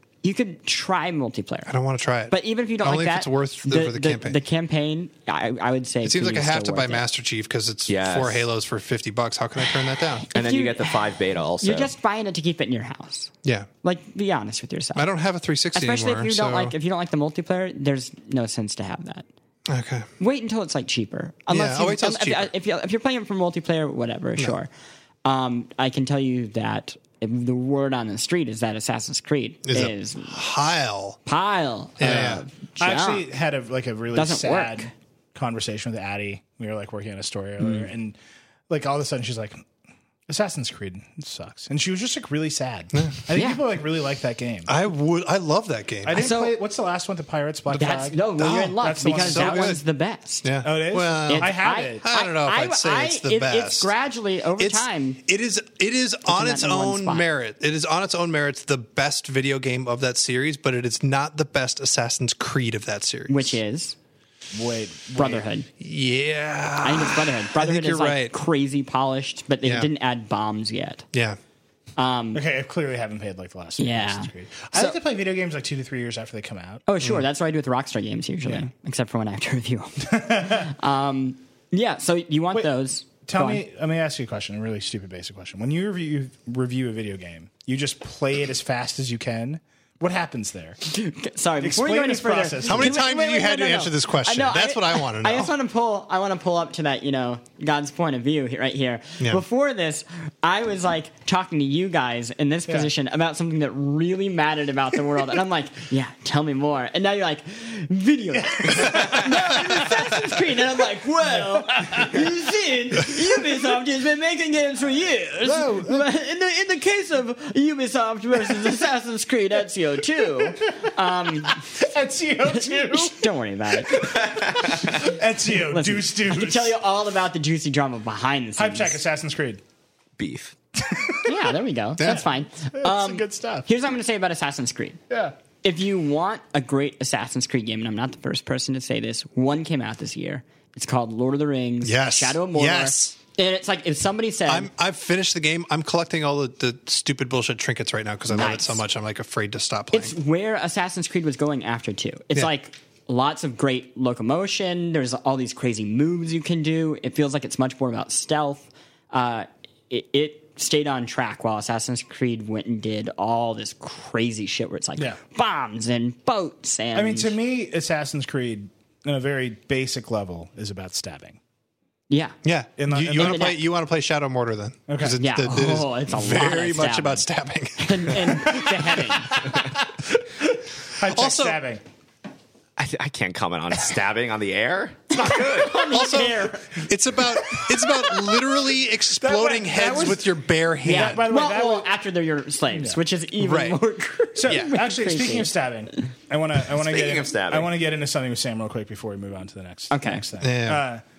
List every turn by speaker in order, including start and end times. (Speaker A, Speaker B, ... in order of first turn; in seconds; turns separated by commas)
Speaker A: 0.2-1.7, Speaker B: 1.7-4.4, Speaker A: 2.3-7.0, Speaker B: 6.0-10.3, Speaker C: 7.9-8.4, Speaker A: 10.3-13.3, Speaker C: 10.3-11.9, Speaker A: 13.8-15.1, Speaker B: 15.0-16.7, Speaker A: 15.7-19.3, Speaker B: 19.7-20.1, Speaker A: 20.2-24.7, Speaker B: 21.5-22.5, Speaker A: 25.2-30.4, Speaker B: 29.7-31.2, Speaker A: 31.3-33.3, Speaker B: 32.0-32.4, Speaker D: 32.8-38.2, Speaker A: 34.1-34.9, Speaker D: 38.7-39.6, Speaker D: 40.3-44.7, Speaker B: 42.9-43.2, Speaker A: 43.3-43.6, Speaker B: 44.7-46.2, Speaker D: 46.0-48.3, Speaker A: 46.1-46.6, Speaker A: 47.8-50.5, Speaker B: 48.4-49.8, Speaker D: 48.8-49.7, Speaker B: 50.4-53.9, Speaker D: 50.6-52.0, Speaker A: 51.3-55.2, Speaker B: 54.6-63.6, Speaker A: 56.3-57.3, Speaker A: 63.3-64.0, Speaker D: 64.5-65.5, Speaker A: 65.2-65.7, Speaker B: 65.8-68.3, Speaker A: 66.8-71.1, Speaker B: 69.6-69.9, Speaker B: 71.1-71.4, Speaker A: 72.0-72.4, Speaker D: 72.3-76.8, Speaker A: 73.8-75.0, Speaker A: 76.9-83.6, Speaker D: 80.0-80.8, Speaker D: 83.3-90.8, Speaker A: 90.8-121.7, Speaker D: 91.6-93.0, Speaker B: 92.7-95.5, Speaker D: 108.6-109.7, Speaker D: 111.5-112.3, Speaker D: 115.4-116.1, Speaker D: 120.5-123.3, Speaker A: 122.5-124.3, Speaker D: 123.8-126.8, Speaker C: 124.0-125.0, Speaker A: 125.7-129.0, Speaker D: 128.6-129.6, Speaker C: 130.2-130.6, Speaker D: 130.8-131.4, Speaker A: 131.2-135.0, Speaker D: 132.1-133.7, Speaker A: 135.6-144.7, Speaker B: 141.8-143.2, Speaker B: 144.5-150.2, Speaker A: 148.3-148.8, Speaker A: 149.9-167.3, Speaker D: 166.9-171.4, Speaker A: 172.1-172.4, Speaker B: 172.4-178.8, Speaker D: 172.8-173.5, Speaker A: 173.1-173.6, Speaker D: 174.9-175.2, Speaker A: 175.2-177.2, Speaker A: 177.8-179.5, Speaker D: 179.3-181.8, Speaker B: 181.0-181.6, Speaker C: 182.8-185.8, Speaker A: 185.2-186.8, Speaker B: 185.9-191.2, Speaker D: 189.2-191.9, Speaker A: 190.8-195.5, Speaker D: 192.7-193.0, Speaker B: 193.4-193.8, Speaker D: 194.4-201.0, Speaker C: 196.7-197.7, Speaker A: 199.9-200.2, Speaker B: 200.4-200.8